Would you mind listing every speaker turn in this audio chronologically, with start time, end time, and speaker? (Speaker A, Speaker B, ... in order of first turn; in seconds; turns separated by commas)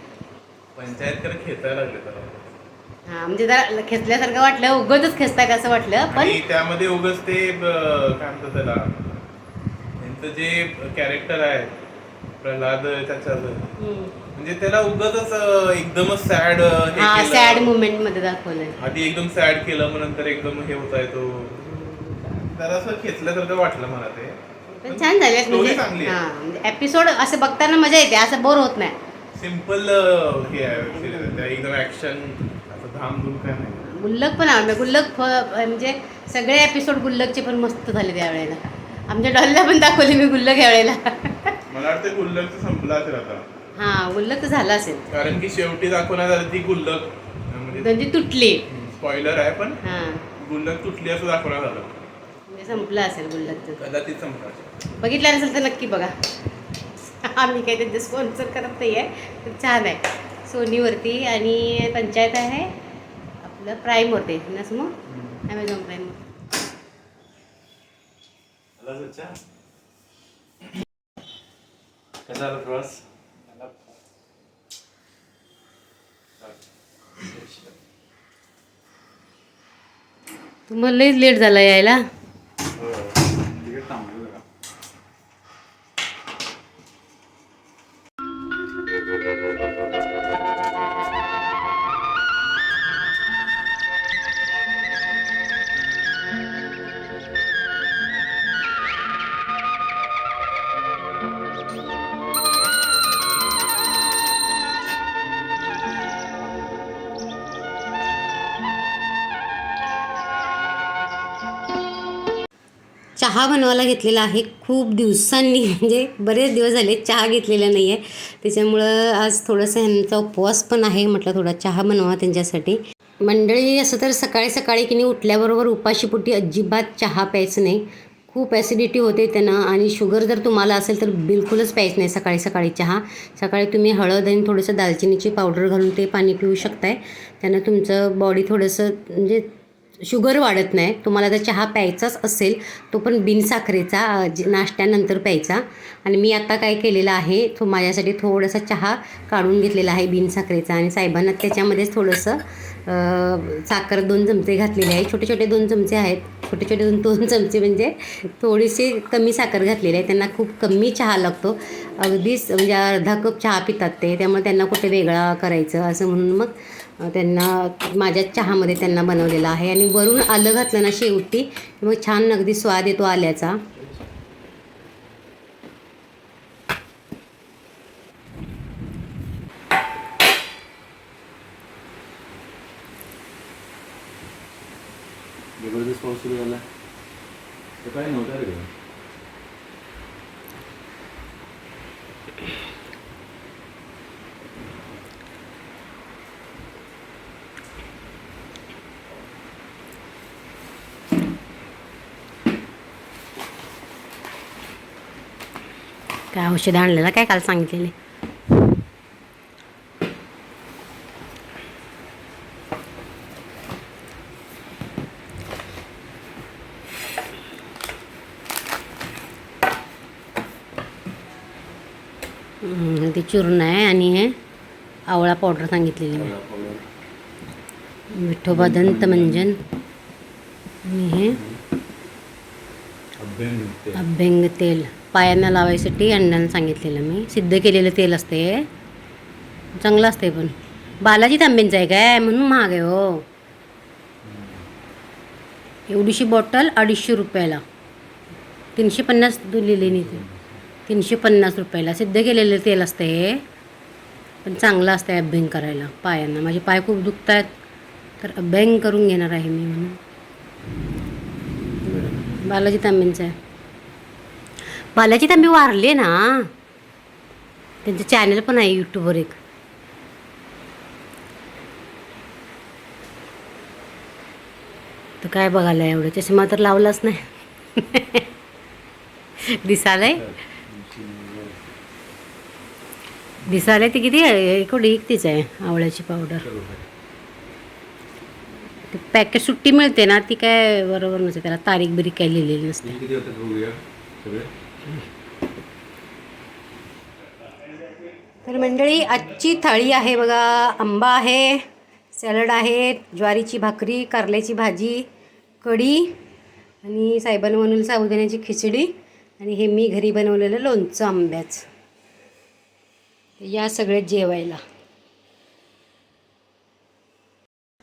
Speaker A: 0.8-2.5, Speaker B: 3.0-6.4, Speaker A: 6.1-9.0, Speaker A: 10.0-11.7, Speaker A: 12.4-13.7, Speaker B: 13.8-14.1, Speaker A: 14.3-17.7, Speaker B: 16.9-18.8, Speaker A: 18.8-21.6, Speaker B: 21.6-22.2, Speaker A: 22.2-26.2, Speaker B: 24.7-29.0, Speaker A: 29.4-33.9, Speaker B: 30.7-31.4, Speaker B: 33.8-41.5, Speaker A: 41.7-43.5, Speaker B: 43.7-45.1, Speaker A: 45.1-47.9, Speaker B: 47.7-48.6, Speaker A: 48.7-49.8, Speaker B: 49.8-50.2, Speaker A: 50.4-51.9, Speaker B: 52.5-53.8, Speaker A: 53.8-54.7, Speaker B: 55.0-56.1, Speaker B: 57.0-62.7, Speaker B: 63.4-65.0, Speaker B: 65.5-66.2, Speaker A: 68.8-69.4, Speaker C: 72.3-73.0, Speaker A: 72.3-73.0, Speaker C: 77.3-77.6, Speaker B: 80.7-82.0, Speaker C: 83.5-84.4, Speaker B: 113.2-139.5, Speaker B: 140.0-173.6, Speaker C: 185.6-186.7, Speaker C: 187.8-188.7, Speaker B: 206.3-207.9, Speaker B: 222.6-224.3, Speaker B: 225.1-226.3, Speaker C: 226.1-226.8, Speaker B: 228.1-229.6, Speaker C: 228.5-229.5, Speaker B: 230.8-231.4, Speaker C: 231.3-231.6, Speaker C: 233.2-234.0, Speaker B: 233.9-238.7, Speaker B: 239.7-243.2, Speaker C: 244.2-244.7, Speaker B: 245.9-247.6, Speaker B: 248.8-250.2, Speaker C: 249.8-250.6, Speaker B: 250.9-253.4, Speaker B: 254.4-257.5, Speaker B: 258.2-260.0, Speaker B: 261.8-263.3, Speaker B: 264.9-266.5, Speaker B: 267.8-269.4, Speaker B: 275.2-278.2, Speaker B: 279.6-280.2, Speaker C: 280.1-281.6, Speaker B: 283.5-286.4, Speaker C: 283.5-283.8, Speaker C: 286.4-286.9, Speaker B: 288.9-292.9, Speaker C: 292.8-294.5, Speaker B: 298.4-305.1, Speaker B: 305.6-306.1, Speaker B: 306.8-311.7, Speaker B: 313.4-314.6